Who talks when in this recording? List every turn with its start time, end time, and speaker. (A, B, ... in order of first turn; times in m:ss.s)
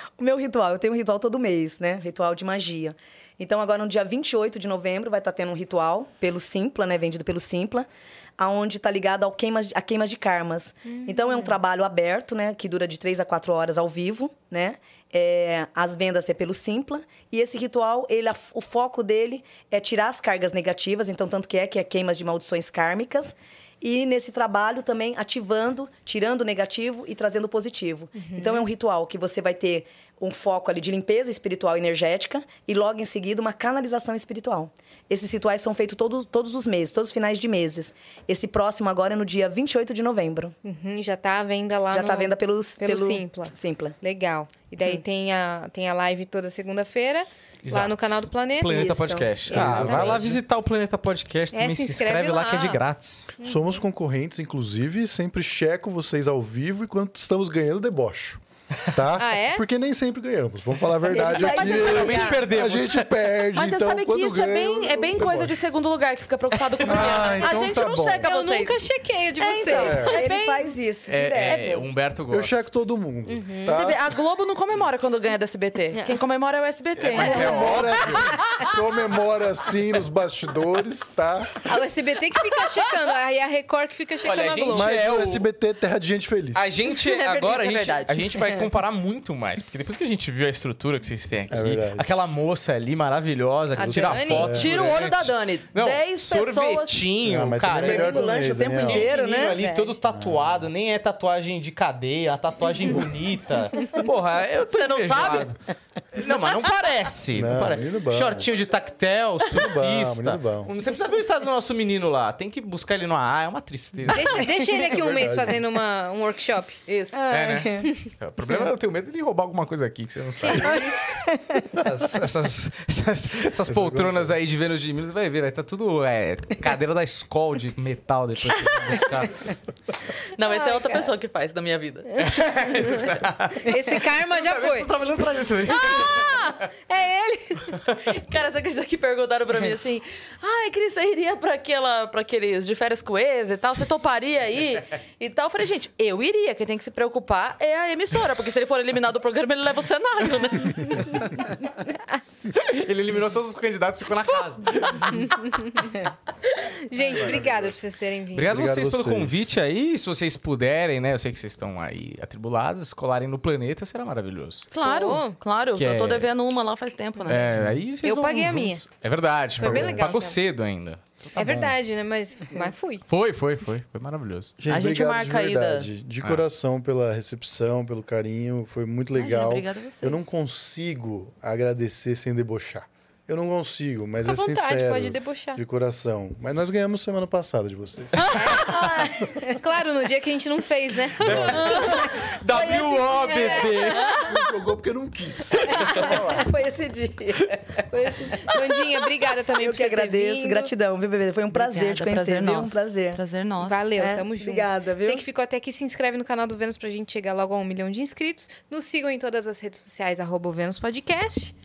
0:00.2-0:40.6 A
0:10.9-0:11.5 B
0:28.2-0:28.6 B
0:40.6-0:50.3 B
0:41.9-0:43.9 A
0:47.6-0:53.3 C
0:48.6-0:49.3 A
0:49.5-0:50.4 D
0:51.5-0:52.8 B
0:53.4-0:53.8 B
0:53.4-1:05.6 D
0:59.2-0:59.6 B
1:01.1-1:02.4 A
1:01.1-1:02.5 E
1:01.7-1:03.1 C
1:03.5-1:08.8 E
1:06.8-1:08.3 D
1:07.1-1:07.6 B
1:08.2-1:10.1 B
1:09.3-1:10.7 E
1:09.8-1:10.2 D
1:09.8-1:11.8 A
1:11.1-1:12.7 C
1:11.4-1:11.8 E
1:12.3-1:14.0 D
1:13.3-1:13.8 B
1:13.7-1:18.7 E
1:15.9-1:16.2 B
1:17.0-1:18.4 C
1:17.1-1:17.8 B
1:17.2-1:21.5 D
1:21.6-1:24.9 B
1:24.2-1:25.4 C
1:24.7-1:26.8 D
1:26.5-1:45.6 C
1:27.0-1:28.6 E
1:31.5-1:32.1 D
1:33.7-1:34.5 B
1:33.8-1:34.7 D
1:34.4-1:37.1 E
1:37.2-1:39.1 D
1:37.8-1:39.6 A
1:39.3-1:39.9 B
1:40.1-1:40.6 D
1:44.7-1:45.6 E
1:46.1-1:54.5 C
1:47.3-1:48.5 D
1:49.5-1:50.7 D
1:54.1-1:56.8 B
1:54.8-1:55.6 D
1:56.8-1:57.2 E
1:57.1-1:57.9 A
1:57.3-2:01.1 C
2:00.4-2:01.2 B
2:00.7-2:01.6 A
2:01.7-2:09.5 C
2:03.6-2:04.3 D
2:10.3-2:12.1 E
2:10.4-2:11.1 B
2:12.1-2:14.9 B
2:12.2-2:16.7 C
2:15.7-2:16.6 E
2:15.9-2:17.8 B
2:17.9-2:31.5 E
2:32.5-2:35.1 C
2:35.2-2:35.9 B
2:36.7-2:38.5 B
2:37.0-2:37.7 C
2:38.3-2:44.7 C
2:38.5-2:39.5 D
2:44.7-2:47.5 E
2:44.8-2:45.4 B
2:45.7-2:46.3 C
2:47.2-2:51.7 C
2:48.0-2:48.8 B
2:49.6-2:50.4 B
2:49.6-2:50.2 D
2:51.3-2:53.0 B
2:53.1-2:54.5 C
2:54.6-3:08.3 D
2:54.7-2:55.9 E
2:59.1-3:00.2 E
3:04.2-3:05.6 B
3:08.2-3:08.6 E
3:08.3-3:12.0 B
3:08.7-3:09.6 A
3:11.2-3:11.8 D
3:11.2-3:12.1 E
3:11.2-3:14.2 C
3:12.5-3:13.8 A
3:13.4-3:13.8 B
3:13.9-3:14.3 E
3:14.2-3:16.5 D
3:15.7-3:18.1 A
3:17.9-3:20.7 B
3:18.5-3:19.0 E
3:19.6-3:23.2 A
3:21.5-3:23.9 E
3:23.6-3:31.5 B
3:24.0-3:25.2 A